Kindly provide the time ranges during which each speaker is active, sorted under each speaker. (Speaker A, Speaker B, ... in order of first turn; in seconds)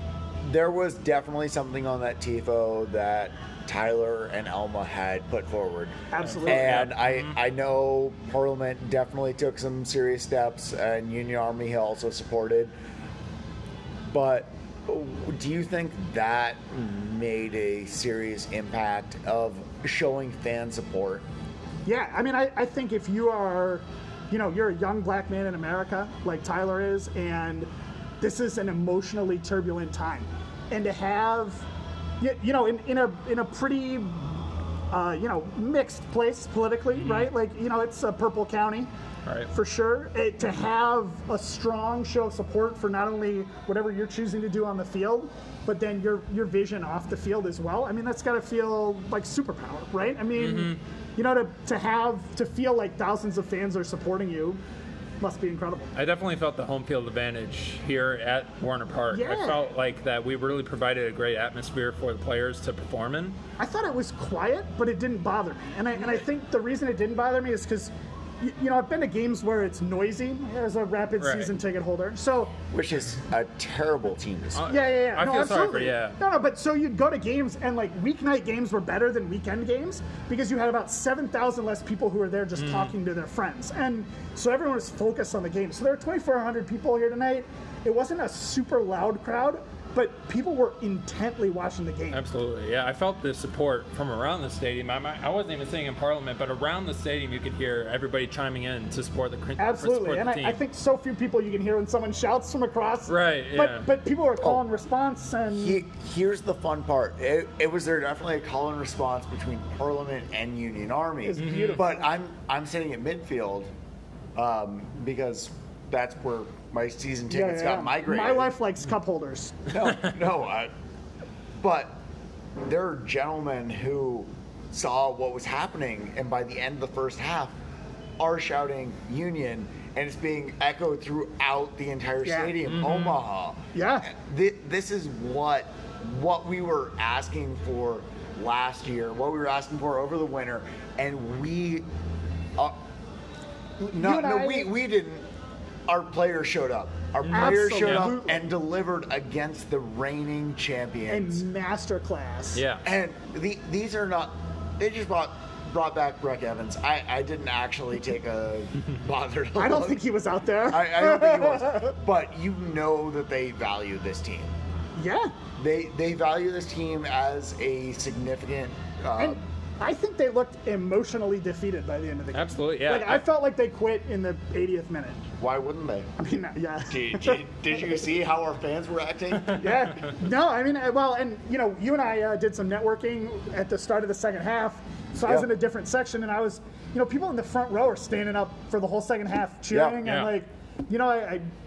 Speaker A: 0.4-5.9, 6.5-12.7, 14.1-21.2, 72.7-74.6, 105.5-113.7, 114.3-118.5, 119.7-120.7, 121.6-121.9, 122.6-127.5, 128.2-141.8, 143.8-145.2, 145.9-151.4, 152.8-160.1, 160.7-164.5, 165.6-169.4, 175.4-176.1, 176.8-179.8, 189.7-190.0
Speaker B: 6.1-6.9, 21.8-27.7, 28.2-31.6, 32.2-38.9, 39.5-54.6, 55.2-55.9, 59.1-59.6, 63.6-72.5, 74.7-92.2, 99.6-105.8, 111.2-112.1, 117.3-119.7, 132.2-132.6, 133.7-134.1, 143.9-144.7, 147.3-148.4, 151.1-152.6, 159.6-161.9, 164.9-165.3, 169.2-175.2, 176.2-177.4, 179.6-191.5
Speaker C: 6.2-7.4, 37.0-37.3, 50.4-50.8, 55.9-63.4, 71.2-71.5, 74.5-76.2, 82.5-82.9, 92.1-100.6, 103.1-103.9, 111.4-111.8, 132.6-133.2, 147.2-148.1, 152.5-152.8, 172.3-173.2, 179.5-180.1, 190.0-190.3